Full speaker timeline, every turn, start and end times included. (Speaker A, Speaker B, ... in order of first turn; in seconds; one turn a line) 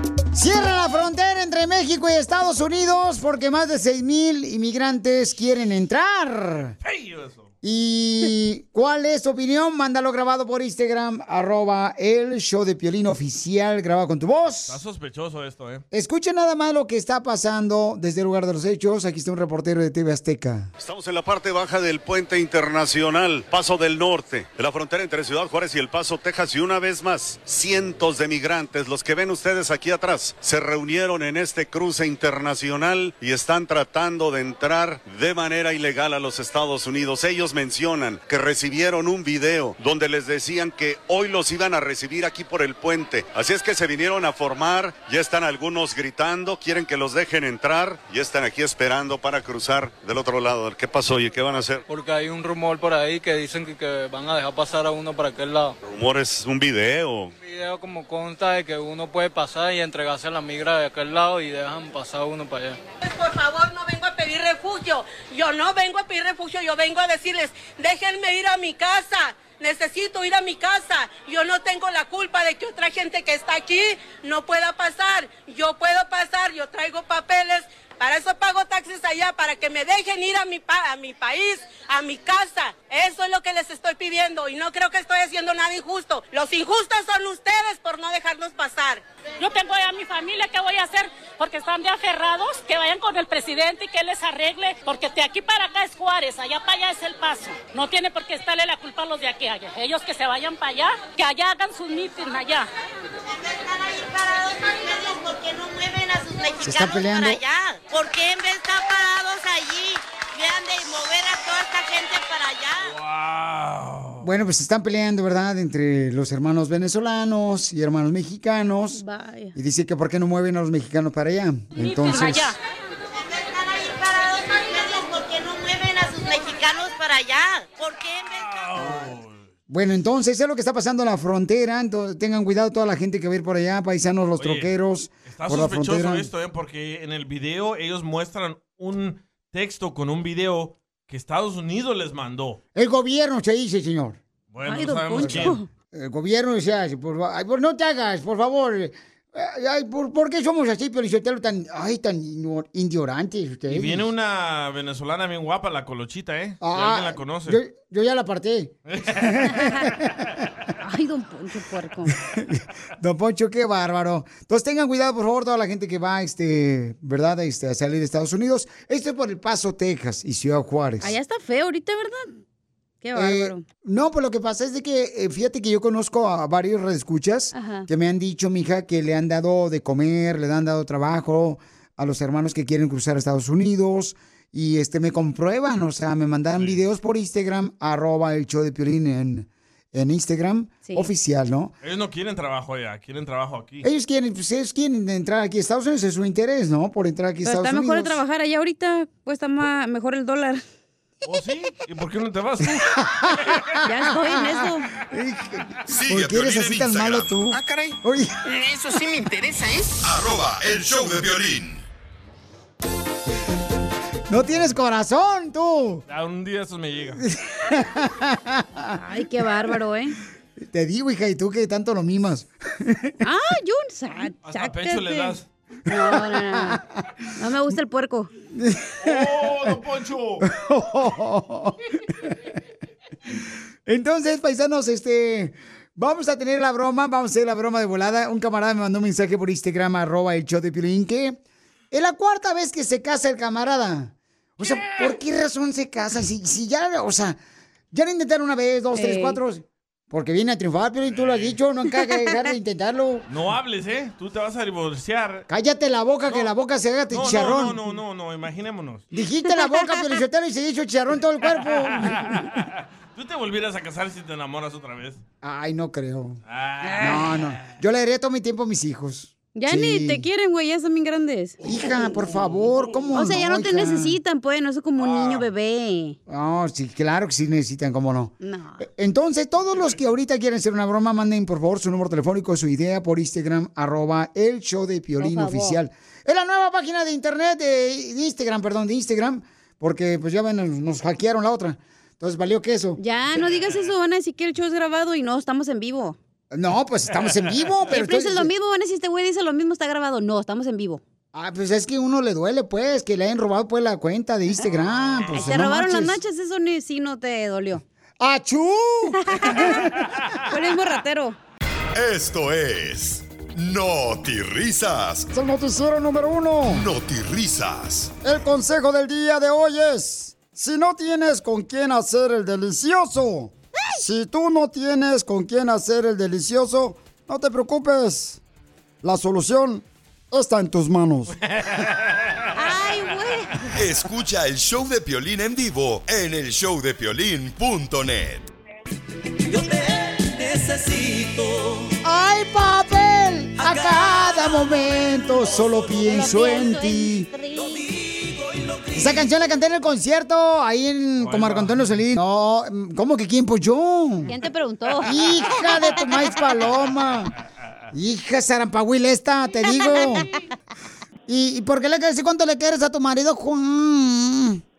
Speaker A: 0.3-6.7
Speaker B: 6.8-7.5
Speaker A: 7.6-14.8
Speaker B: 14.7-15.8
Speaker A: 15.9-20.7
Speaker C: 20.8-51.9
Speaker D: 51.9-55.8
Speaker C: 55.8-57.3
Speaker D: 57.4-62.8
Speaker E: 63.0-89.0
Speaker F: 89.4-102.7
Speaker E: 103.3-112.9
Speaker A: 106.6-107.4
Speaker B: 112.9-114.2
Speaker A: 114.2-119.0
Speaker G: 118.9-119.5
Speaker A: 119.5-122.5
Speaker F: 121.8-122.5
Speaker E: 123.2-128.4
Speaker B: 128.3-129.5
Speaker A: 129.7-136.3
Speaker B: 134.4-134.7
Speaker B: 135.3-142.6
Speaker A: 142.8-144.2
Speaker B: 144.5-145.6
Speaker G: 144.6-145.7
Speaker A: 145.2-154.1
Speaker B: 153.7-157.6
Speaker A: 156.6-160.3
Speaker B: 158.9-159.4
Speaker G: 160.8-162.1
Speaker A: 162.3-171.2
Speaker G: 171.0-172.4
Speaker G: 173.0-173.6
Speaker A: 173.2-191.7
Speaker G: 177.5-177.9
Speaker G: 190.8-191.1
Speaker B: 191.8-193.9
Speaker A: 193.8-198.2
Speaker G: 197.4-200.6
Speaker B: 201.2-203.0
Speaker A: 202.9-208.3
Speaker G: 203.8-204.9
Speaker H: 205.9-207.4
Speaker I: 207.5-210.0
Speaker H: 210.0-211.8
Speaker A: 214.3-216.0
Speaker B: 216.1-217.2
Speaker A: 217.2-219.0
Speaker G: 219.0-220.2
Speaker A: 220.6-223.1
Speaker G: 223.2-226.8
Speaker B: 224.4-225.5
Speaker A: 226.0-226.8
Speaker G: 227.4-228.3
Speaker A: 228.5-229.8
Speaker B: 229.0-230.4
Speaker A: 230.4-232.4
Speaker A: 233.9-241.4
Speaker A: 241.9-247.4
Speaker A: 247.9-253.3
Speaker G: 248.9-249.4
Speaker B: 251.1-251.6
Speaker B: 253.3-255.5
Speaker A: 255.5-257.8
Speaker B: 257.1-259.1
Speaker A: 259.1-262.4
Speaker G: 259.6-260.0
Speaker B: 261.6-265.2
Speaker A: 265.4-266.4
Speaker B: 266.5-267.6
Speaker G: 266.8-267.2
Speaker A: 267.0-270.2
Speaker G: 269.5-271.6
Speaker A: 271.6-274.2
Speaker G: 273.1-276.2
Speaker B: 275.0-275.5
Speaker A: 276.3-293.0
Speaker G: 278.4-278.9
Speaker G: 285.2-285.8
Speaker G: 293.0-296.2
Speaker B: 293.4-293.9
Speaker A: 296.5-298.5
Speaker B: 297.1-297.6
Speaker G: 297.9-301.0
Speaker A: 301.3-306.2
Speaker G: 305.3-307.8
Speaker A: 308.2-310.0
Speaker G: 309.3-309.9
Speaker G: 310.5-311.4
Speaker H: 311.9-315.3
Speaker A: 315.3-316.9
Speaker H: 316.7-318.1
Speaker A: 318.2-328.4
Speaker A: 329.0-331.4
Speaker B: 331.4-332.4
Speaker G: 332.6-333.8
Speaker H: 333.7-338.5
Speaker A: 342.0-347.3
Speaker G: 345.9-347.9
Speaker A: 348.9-354.3
Speaker B: 351.2-351.9
Speaker G: 354.3-356.1
Speaker A: 355.0-357.3
Speaker A: 357.9-360.3
Speaker A: 361.3-364.6